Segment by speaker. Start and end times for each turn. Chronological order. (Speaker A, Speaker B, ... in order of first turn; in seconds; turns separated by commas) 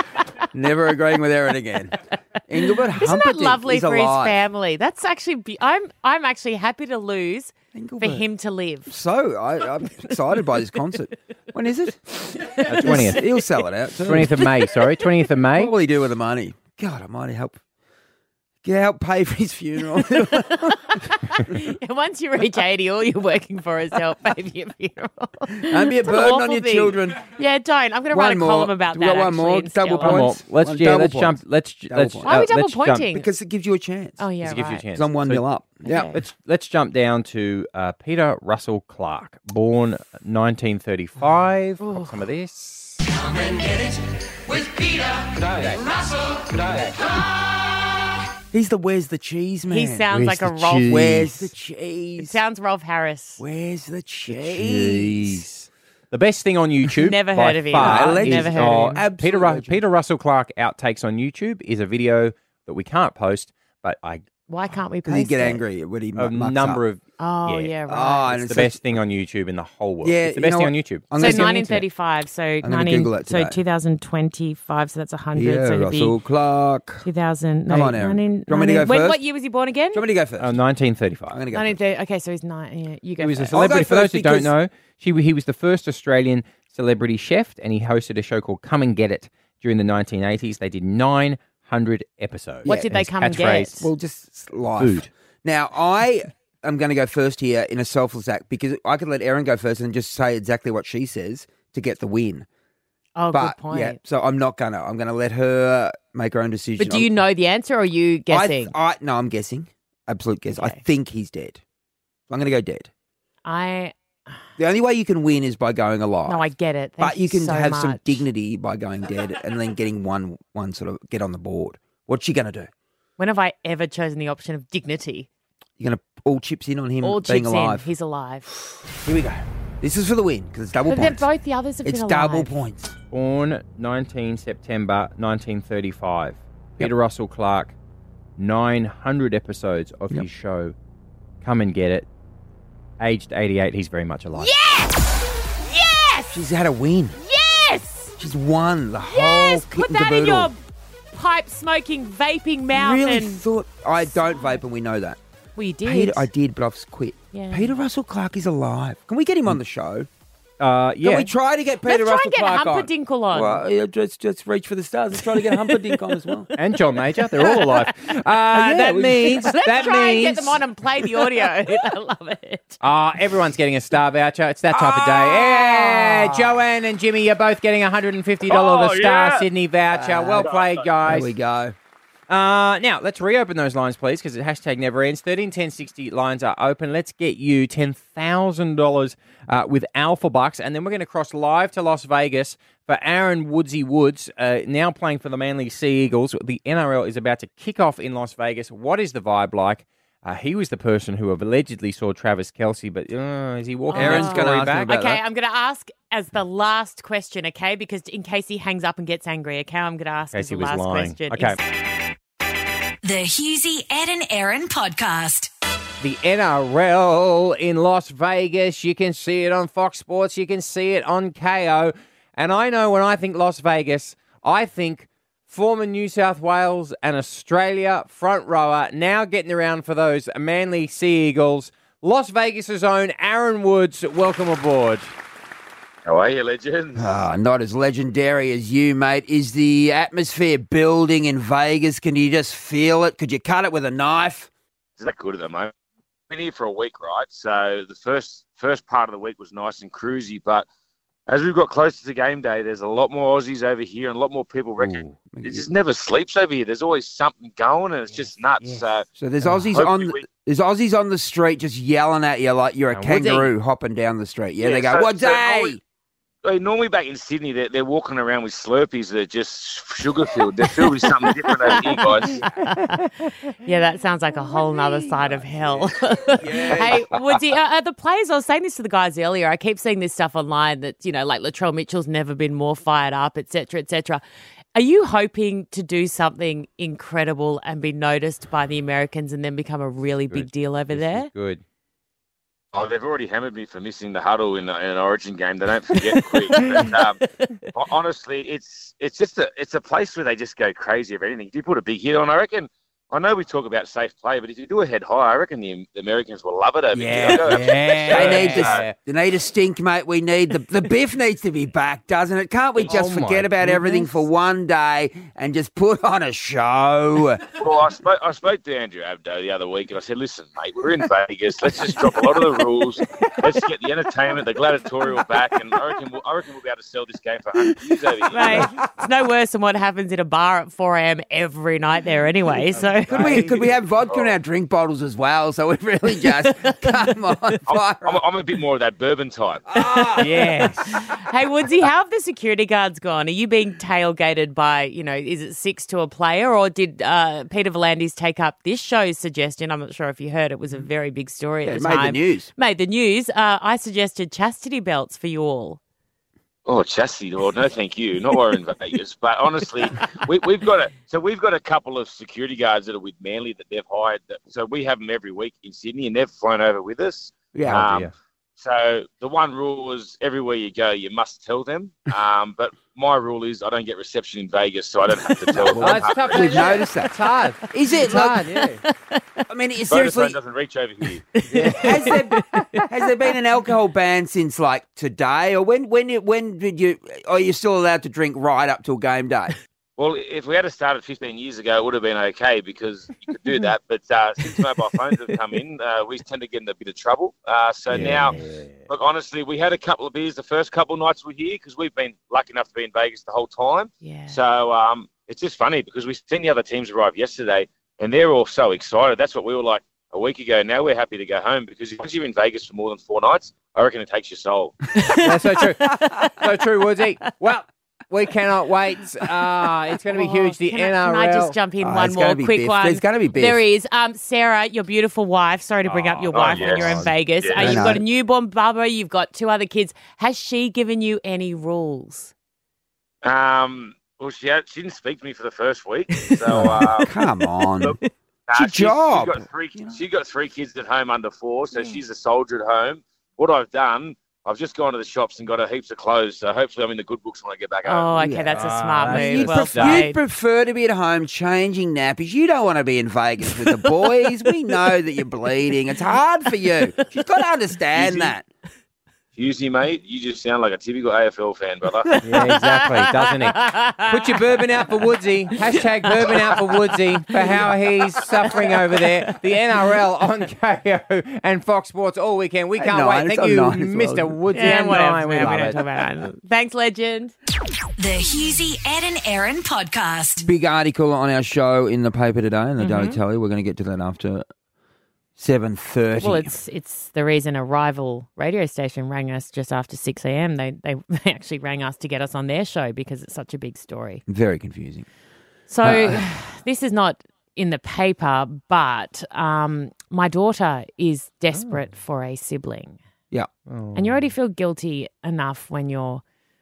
Speaker A: 0.5-4.4, Speaker B: 3.0-8.9, Speaker A: 7.7-8.2, Speaker A: 8.9-14.5, Speaker B: 12.4-13.1, Speaker C: 12.7-13.3, Speaker C: 14.0-15.7, Speaker A: 15.6-17.6, Speaker A: 18.6-21.1, Speaker B: 20.1-30.3, Speaker A: 25.6-27.2, Speaker A: 28.1-32.4, Speaker C: 30.0-33.1, Speaker B: 32.2-33.3, Speaker A: 33.1-34.2, Speaker B: 34.2-34.9, Speaker C: 34.4-35.5, Speaker A: 35.0-36.1, Speaker B: 35.9-36.2, Speaker C: 36.1-43.0, Speaker B: 41.8-42.2, Speaker C: 45.4-45.8, Speaker C: 46.6-46.9, Speaker A: 48.5-52.4, Speaker B: 49.7-51.5, Speaker B: 52.2-53.4, Speaker A: 53.4-55.5, Speaker C: 54.3-64.3, Speaker B: 57.0-59.0, Speaker A: 57.8-59.8, Speaker B: 64.5-65.6, Speaker A: 65.0-66.8, Speaker C: 66.2-67.7, Speaker B: 67.2-68.4, Speaker A: 67.9-68.9, Speaker C: 68.3-71.5, Speaker A: 70.0-71.8, Speaker B: 71.2-76.2, Speaker A: 72.6-73.6, Speaker A: 75.3-77.1, Speaker B: 77.0-80.0, Speaker A: 77.7-79.2, Speaker A: 79.9-80.5, Speaker C: 80.4-81.4, Speaker A: 81.3-81.8, Speaker B: 81.5-83.6, Speaker C: 83.2-93.7, Speaker A: 83.5-84.5, Speaker A: 92.7-92.9, Speaker B: 92.7-93.9, Speaker A: 93.8-102.5, Speaker C: 94.8-95.1, Speaker B: 103.2-104.0, Speaker A: 103.3-107.2, Speaker B: 106.8-108.7, Speaker A: 108.3-111.6, Speaker B: 110.5-110.8, Speaker A: 112.3-112.9, Speaker B: 113.5-114.4, Speaker A: 114.6-116.5, Speaker B: 116.3-118.2, Speaker A: 117.0-122.7, Speaker B: 123.2-125.3, Speaker A: 125.8-127.9, Speaker B: 127.0-128.5, Speaker A: 128.9-131.3, Speaker B: 130.9-132.6, Speaker A: 131.8-132.9, Speaker C: 133.1-137.8, Speaker C: 138.4-140.8, Speaker C: 141.4-142.1, Speaker C: 143.0-144.5, Speaker B: 144.3-145.0, Speaker B: 145.6-146.4, Speaker A: 146.3-147.2, Speaker B: 147.2-148.2, Speaker A: 148.2-150.5, Speaker B: 149.0-150.6, Speaker B: 151.1-153.4, Speaker A: 152.7-155.2, Speaker B: 154.0-154.6, Speaker B: 155.6-156.3, Speaker A: 155.8-160.1, Speaker B: 157.3-157.8, Speaker C: 160.6-161.3, Speaker A: 161.0-166.5, Speaker B: 161.9-163.6, Speaker B: 165.3-166.1, Speaker C: 166.6-170.6, Speaker B: 167.2-167.9, Speaker A: 168.5-169.4, Speaker B: 169.2-172.8, Speaker C: 172.8-181.3, Speaker A: 174.7-176.6, Speaker A: 178.6-178.9, Speaker A: 179.9-181.8, Speaker C: 182.3-205.0, Speaker B: 203.9-211.6, Speaker A: 203.9-205.2, Speaker C: 210.3-211.6, Speaker D: 213.0-215.5, Speaker C: 216.0-235.1, Speaker E: 236.1-237.2, Speaker A: 237.0-244.5, Speaker E: 245.0-245.7, Speaker E: 246.3-250.7, Speaker E: 251.3-259.1, Speaker A: 254.8-255.7, Speaker B: 258.6-258.9, Speaker A: 259.1-265.8, Speaker E: 259.7-260.3, Speaker C: 262.9-263.5, Speaker E: 264.6-265.8, Speaker E: 266.4-272.4, Speaker B: 270.9-284.2, Speaker A: 274.4-277.2, Speaker B: 284.8-291.3, Speaker C: 290.3-291.6, Speaker E: 292.7-297.2, Speaker B: 296.5-296.9, Speaker E: 297.7-308.9, Speaker A: 306.9-317.4, Speaker C: 307.1-308.9, Speaker C: 312.9-314.3, Speaker E: 317.6-328.6, Speaker B: 328.3-333.7, Speaker A: 328.4-328.7, Speaker C: 332.8-333.5, Speaker A: 333.1-338.2, Speaker E: 334.1-334.4, Speaker B: 336.2-337.1, Speaker E: 337.7-339.6, Speaker A: 339.7-340.3, Speaker B: 339.8-355.8, Speaker C: 340.2-341.0, Speaker A: 351.6-352.5, Speaker E: 356.7-376.6, Speaker A: 367.5-368.1, Speaker C: 367.7-368.1, Speaker A: 375.4-377.1, Speaker C: 375.8-378.8, Speaker B: 376.4-376.9, Speaker A: 377.7-378.5, Speaker B: 378.0-378.6, Speaker B: 379.1-379.4, Speaker A: 379.5-380.4, Speaker E: 379.9-381.2, Speaker B: 381.4-382.9, Speaker C: 381.5-381.9, Speaker A: 381.6-389.6, Speaker E: 390.0-398.3, Speaker C: 397.9-398.8, Speaker E: 398.9-414.8, Speaker B: 404.0-404.4, Speaker B: 415.0-415.3, Speaker C: 415.2-421.6, Speaker B: 416.0-416.4, Speaker B: 420.1-432.3, Speaker A: 421.8-423.6, Speaker C: 425.9-427.6, Speaker E: 426.3-427.8, Speaker A: 427.6-428.0, Speaker E: 433.2-437.1, Speaker B: 436.3-436.7, Speaker A: 436.5-438.0, Speaker E: 438.5-448.2, Speaker A: 438.5-440.0, Speaker B: 447.9-450.2, Speaker A: 448.2-458.5, Speaker C: 448.5-450.1, Speaker E: 458.0-458.3, Speaker E: 459.4-462.2, Speaker B: 462.1-464.6, Speaker C: 462.2-476.1, Speaker B: 465.7-469.3, Speaker A: 472.8-474.4, Speaker B: 474.5-477.3, Speaker D: 478.0-480.5, Speaker A: 480.4-484.5, Speaker B: 482.8-483.2, Speaker A: 485.4-486.5, Speaker B: 486.2-494.2, Speaker A: 494.3-495.1, Speaker B: 495.7-503.0, Speaker A: 495.8-496.2, Speaker C: 501.5-501.8, Speaker C: 503.7-504.3, Speaker B: 503.9-506.2